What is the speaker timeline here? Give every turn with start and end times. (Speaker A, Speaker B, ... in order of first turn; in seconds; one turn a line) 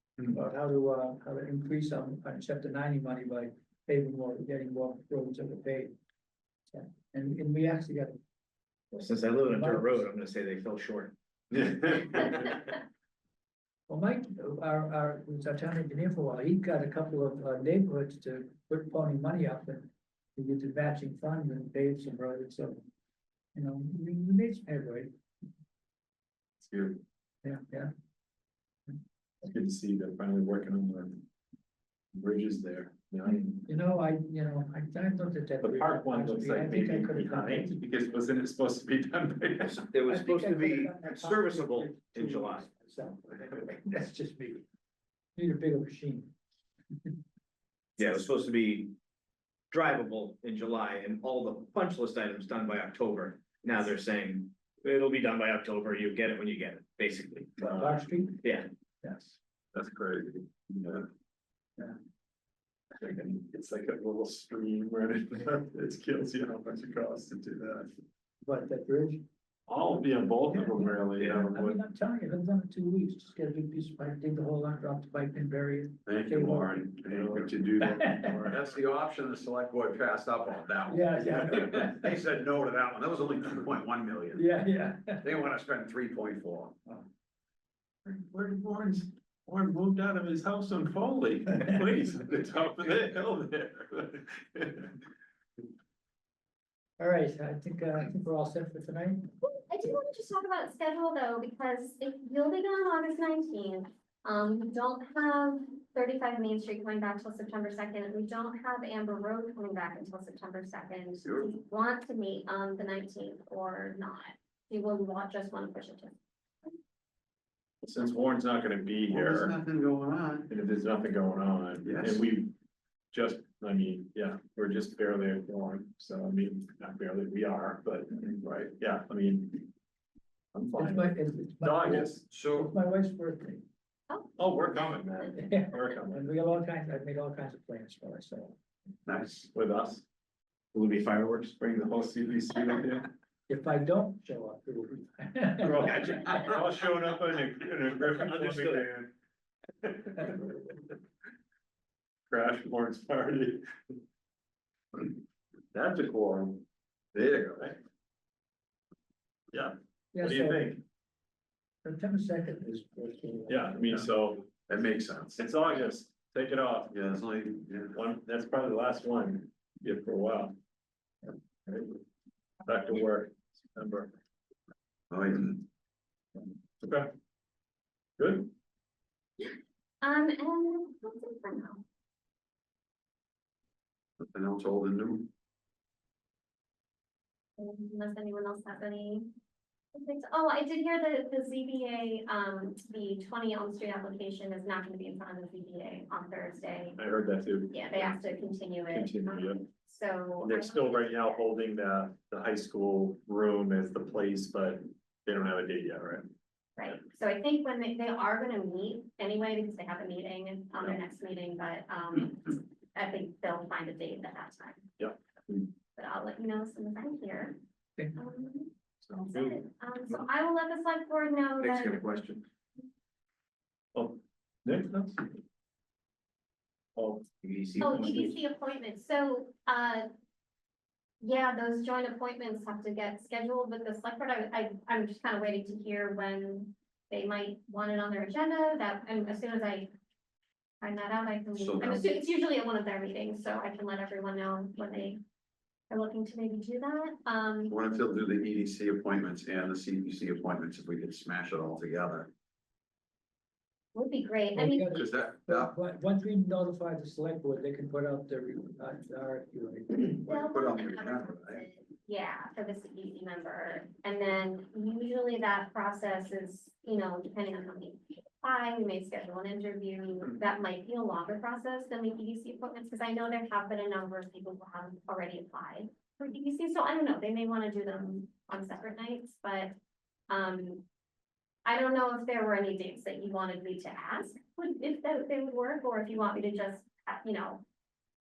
Speaker A: 0.3-5.9
Speaker A: 6.7-8.2
Speaker B: 8.9-12.3
Speaker A: 9.0-10.1
Speaker A: 13.9-22.8
Speaker A: 23.6-25.1
Speaker C: 26.6-27.0
Speaker A: 27.4-27.9
Speaker C: 29.4-31.2
Speaker C: 32.1-33.6
Speaker A: 33.6-37.8
Speaker C: 35.6-39.9
Speaker B: 39.6-42.7
Speaker A: 40.1-44.6
Speaker A: 45.4-46.3
Speaker B: 48.0-48.9
Speaker B: 49.7-57.6
Speaker C: 57.6-58.0
Speaker A: 57.7-58.4
Speaker B: 58.4-58.7
Speaker A: 59.0-59.4
Speaker C: 59.7-61.1
Speaker C: 63.1-67.9
Speaker A: 68.4-69.2
Speaker C: 69.7-71.8
Speaker A: 70.5-76.9
Speaker D: 76.1-84.5
Speaker C: 77.1-77.5
Speaker A: 77.8-78.4
Speaker C: 78.1-78.6
Speaker A: 80.9-82.1
Speaker A: 84.3-85.2
Speaker D: 85.2-86.8
Speaker C: 88.0-95.0
Speaker A: 97.0-99.3
Speaker E: 99.4-116.7
Speaker D: 111.2-111.5
Speaker C: 117.8-119.5
Speaker D: 119.1-120.5
Speaker C: 120.5-122.5
Speaker D: 121.8-122.3
Speaker C: 123.1-128.2
Speaker D: 128.4-128.7
Speaker C: 128.8-129.7
Speaker C: 130.5-132.3
Speaker A: 130.8-133.7
Speaker D: 132.3-132.7
Speaker E: 134.1-134.3
Speaker C: 134.4-136.3
Speaker A: 135.3-138.6
Speaker D: 139.1-139.5
Speaker C: 139.5-140.1
Speaker B: 140.7-141.6
Speaker C: 141.6-143.1
Speaker A: 143.5-146.4
Speaker C: 145.6-149.2
Speaker B: 148.0-148.9
Speaker C: 149.8-150.8
Speaker C: 152.3-153.9
Speaker C: 155.7-156.6
Speaker D: 157.1-157.8
Speaker C: 159.5-160.8
Speaker A: 160.1-160.8
Speaker A: 161.8-164.1
Speaker C: 163.5-164.5
Speaker D: 164.7-165.4
Speaker C: 165.4-166.9
Speaker D: 166.9-167.9
Speaker C: 167.9-170.6
Speaker C: 171.7-172.0
Speaker C: 172.7-174.1
Speaker D: 175.1-175.7
Speaker C: 176.8-177.1
Speaker C: 178.2-178.5
Speaker E: 179.4-181.8
Speaker D: 184.2-185.3
Speaker E: 187.6-189.3
Speaker E: 189.9-197.0
Speaker C: 197.0-198.3
Speaker E: 197.7-201.4
Speaker C: 198.9-199.7
Speaker C: 200.4-206.3
Speaker E: 206.8-214.9
Speaker C: 215.0-215.6
Speaker E: 216.0-217.6
Speaker E: 218.2-222.1
Speaker C: 219.1-220.2
Speaker B: 221.8-222.4
Speaker C: 223.9-225.4
Speaker C: 227.0-227.3
Speaker B: 227.4-228.4
Speaker E: 227.8-230.1
Speaker E: 231.2-239.9
Speaker E: 240.8-245.2
Speaker D: 241.6-242.1
Speaker E: 245.9-247.8
Speaker D: 247.7-252.3
Speaker E: 253.9-254.9
Speaker A: 254.6-260.2
Speaker D: 254.9-255.7
Speaker E: 260.2-279.8
Speaker D: 260.2-261.6
Speaker E: 280.3-280.9
Speaker E: 281.7-287.6